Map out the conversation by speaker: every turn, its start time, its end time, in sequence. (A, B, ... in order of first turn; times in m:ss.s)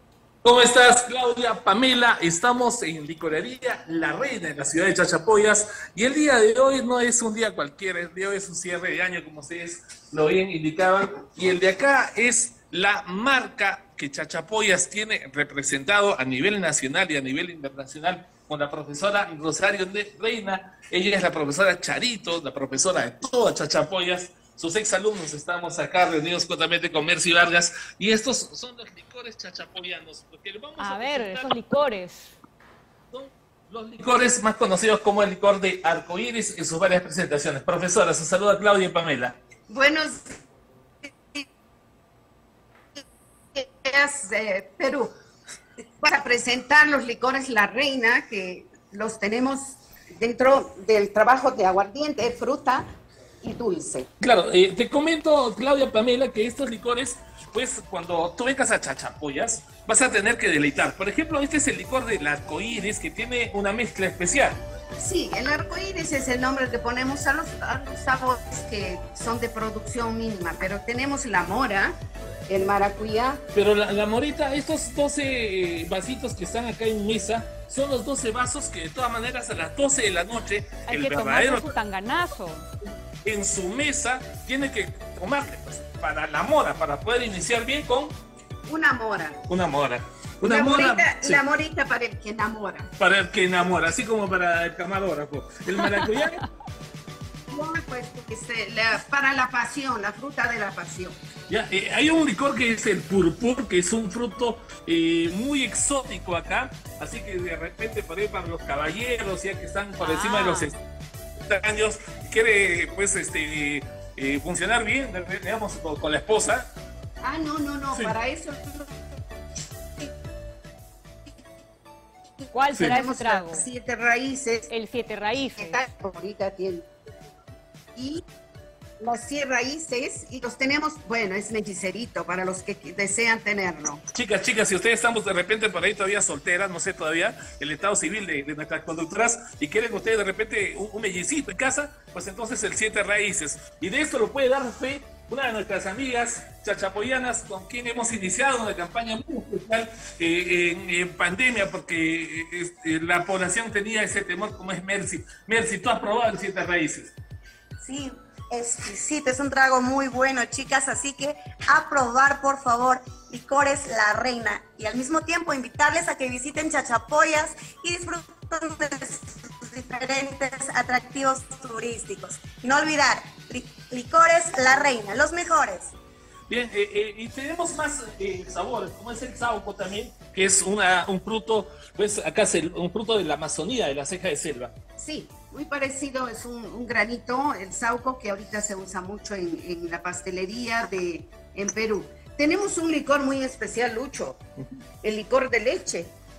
0:00.4-0:31.7 A
0:30.8-0:32.4 B
0:33.1-0:39.4 A
0:39.7-0:40.4 C
0:43.5-0:45.1 C
0:46.0-0:52.8 C
0:53.4-0:54.1 C
0:54.2-1:04.6 A
1:05.0-1:12.0 C
1:12.5-1:13.4 C
1:13.5-1:21.7 A
1:20.9-1:22.7 B
1:23.2-1:28.2 A
1:28.6-1:29.4 C
1:29.5-1:31.4 A
1:30.4-1:32.9 C
1:33.0-1:36.4 A
1:35.8-1:36.5 B
1:37.5-1:41.2 C
1:41.5-1:50.8 A
1:50.0-1:50.8 B
1:51.4-1:56.7 A
1:57.2-1:58.9 C
2:02.5-2:03.7 B
2:02.7-2:03.0 A
2:02.8-2:04.7 C
2:04.7-2:05.8 B
2:05.6-2:06.9 C
2:08.0-2:08.2 C
2:09.0-2:14.0 C
2:14.1-2:37.1 A
2:37.8-2:55.9 D
2:56.5-3:04.7 A
3:05.0-3:14.4 C
3:15.0-3:16.1 C